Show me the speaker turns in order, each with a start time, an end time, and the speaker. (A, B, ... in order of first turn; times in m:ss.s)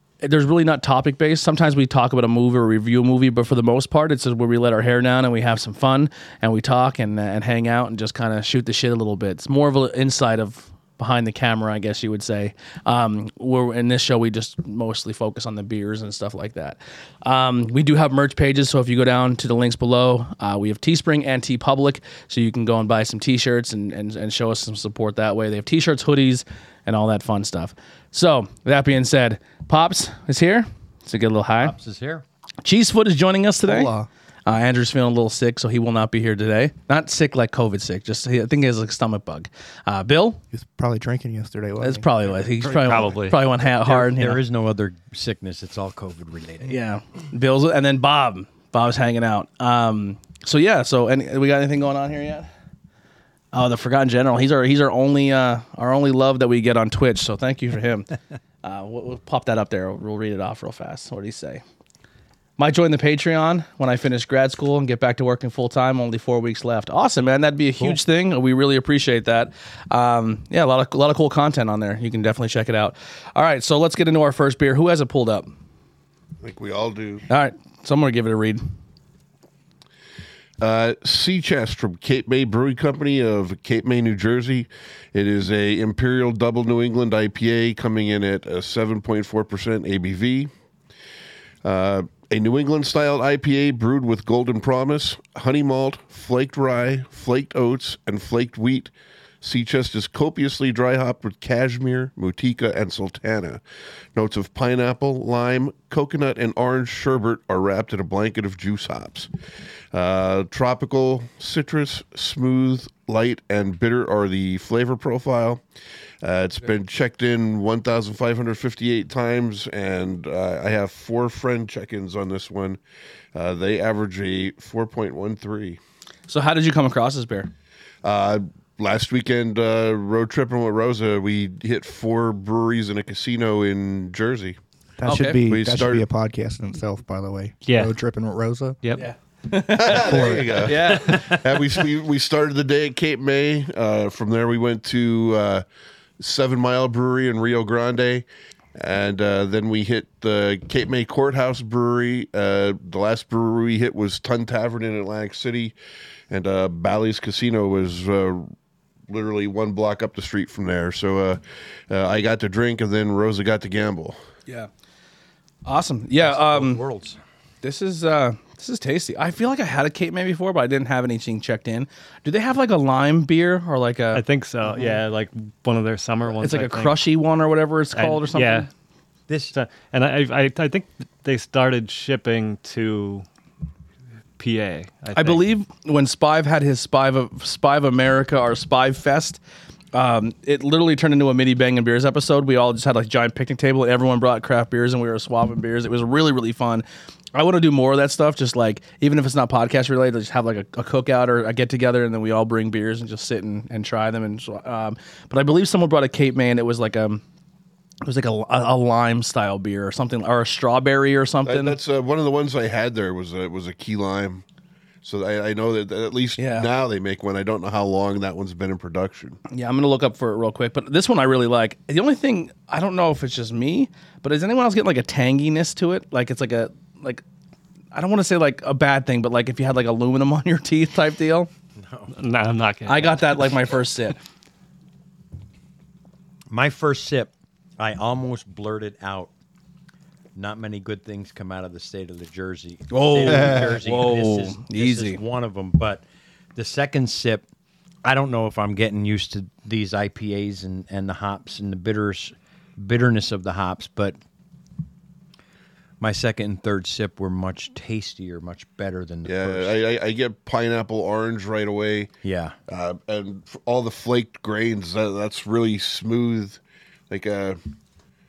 0:00.2-0:31.8 A
0:31.6-0:32.2 B
0:32.6-0:33.9 A
0:33.6-0:34.1 C
0:34.5-0:40.4 A
0:40.5-0:42.1 C
0:41.8-0:44.4 A
0:42.8-0:43.4 D
0:43.8-0:46.8 B
0:46.7-0:52.5 A
0:53.5-0:58.1 A
0:58.6-1:01.6 A
1:02.6-1:15.5 A
1:16.4-1:17.2 E
1:17.3-1:18.6 A
1:20.6-1:30.5 E
1:31.6-1:43.6 E
1:44.1-1:49.3 E
1:49.9-1:55.6 E
1:56.2-2:02.8 E
2:03.3-2:05.8 E
2:06.3-2:07.5 A
2:08.0-2:14.6 E
2:15.0-2:18.8 C
2:15.0-2:15.4 A
2:15.5-2:16.0 E
2:17.7-2:18.0 D
2:19.0-2:21.4 A
2:19.7-2:25.6 E
2:19.9-2:20.7 C
2:21.0-2:21.4 B
2:26.2-2:35.8 E
2:36.3-2:38.5 E
2:39.1-2:44.2 E
2:45.6-2:46.8 A
2:46.2-2:47.2 B
2:47.6-2:54.2 A
2:54.1-2:57.0 D
2:56.4-2:58.7 A
2:57.9-2:58.7 D
2:59.3-2:59.6 B
2:59.5-3:03.2 D
3:04.4-3:05.4 D
3:05.1-3:09.4 A
3:09.9-3:27.2 A
3:28.0-3:31.8 A
3:31.5-3:34.4 E
3:35.0-3:39.4 E
3:36.4-3:36.7 A
3:39.5-3:47.2 A
3:47.9-3:51.5 A
3:51.8-3:52.1 B
3:52.1-3:53.3 D
3:52.9-3:54.2 A
3:56.5-3:59.3 B
4:00.4-4:06.0 B
4:02.9-4:05.2 A
4:06.6-4:07.4 B
4:08.0-4:14.2 B
4:16.0-4:19.8 B
4:19.3-4:22.1 E
4:22.2-4:22.6 B
4:22.7-4:27.6 E